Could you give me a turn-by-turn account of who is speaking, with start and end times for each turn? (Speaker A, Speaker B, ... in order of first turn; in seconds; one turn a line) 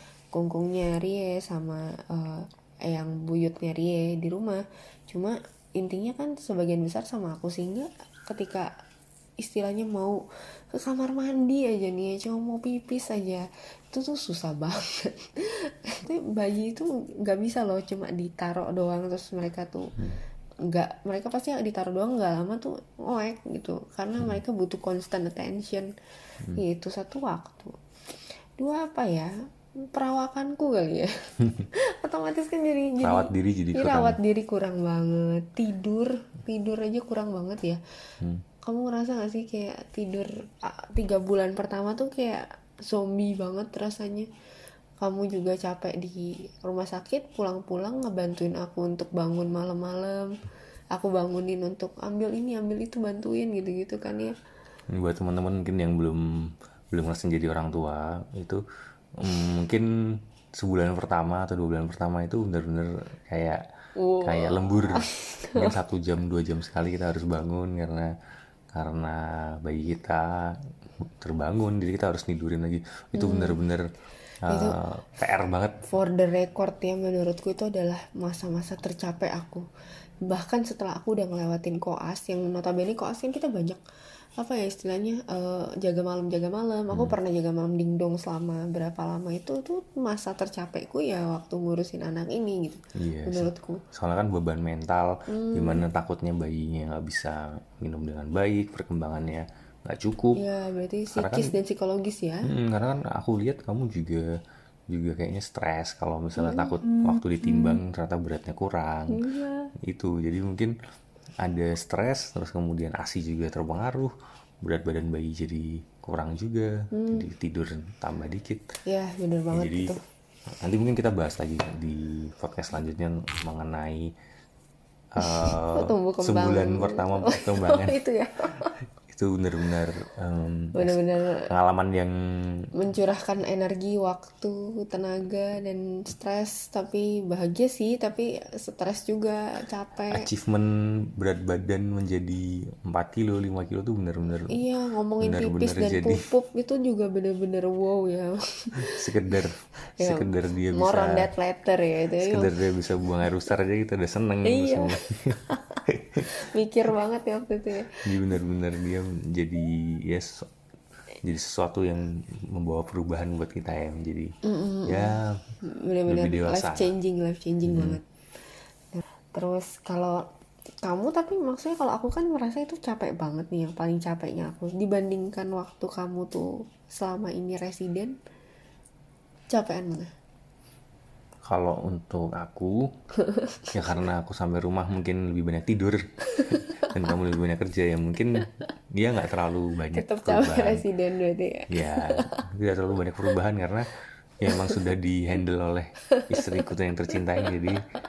Speaker A: 0.3-8.7
Speaker A: 9.4-10.2
Speaker A: 10.7-19.9
Speaker A: 20.7-25.9
Speaker A: 26.6-27.8
Speaker A: 28.6-29.3
Speaker A: 29.9-31.1
Speaker A: 32.0-37.8
Speaker B: 33.0-34.2
Speaker A: 38.6-44.3
Speaker A: 45.0-50.3
Speaker A: 50.9-54.3
Speaker B: 54.9-56.2
Speaker B: 56.9-58.6
Speaker B: 59.2-59.9
Speaker B: 60.6-63.6
Speaker A: 64.0-65.8
Speaker B: 64.2-68.1
Speaker B: 68.7-70.3
Speaker B: 71.0-73.8
Speaker A: 73.2-73.6
Speaker B: 74.5-75.8
Speaker A: 74.5-74.8
Speaker A: 75.9-79.7
Speaker A: 80.3-83.8
Speaker A: 84.4-93.8
Speaker B: 86.9-87.2
Speaker B: 93.0-100.4
Speaker A: 95.3-95.8
Speaker A: 100.4-102.5
Speaker B: 101.1-101.5
Speaker B: 102.5-104.2
Speaker B: 104.9-109.2
Speaker A: 106.4-107.8
Speaker A: 109.1-109.7
Speaker B: 109.8-110.7
Speaker B: 111.4-118.7
Speaker A: 116.9-117.3
Speaker A: 118.9-120.0
Speaker B: 119.5-120.0
Speaker B: 120.6-124.1
Speaker B: 125.2-128.0
Speaker A: 125.2-128.7
Speaker B: 129.1-132.2
Speaker A: 130.8-131.4
Speaker A: 132.8-140.2
Speaker B: 140.1-144.6
Speaker A: 144.5-149.1
Speaker B: 145.2-146.2
Speaker B: 148.8-151.3
Speaker A: 150.0-152.5
Speaker B: 152.2-156.3
Speaker A: 154.4-158.0
Speaker B: 158.0-160.5
Speaker B: 161.2-164.3
Speaker A: 164.5-165.2
Speaker B: 164.9-165.4
Speaker A: 165.7-168.0
Speaker B: 166.1-166.9
Speaker B: 167.7-168.0
Speaker A: 168.9-170.2
Speaker A: 170.8-178.2
Speaker A: 179.5-180.1
Speaker B: 181.5-182.8
Speaker A: 183.2-183.9
Speaker B: 183.7-190.8
Speaker A: 186.3-186.9
Speaker A: 189.9-192.4
Speaker B: 191.7-197.8
Speaker A: 194.5-194.8
Speaker A: 196.2-196.6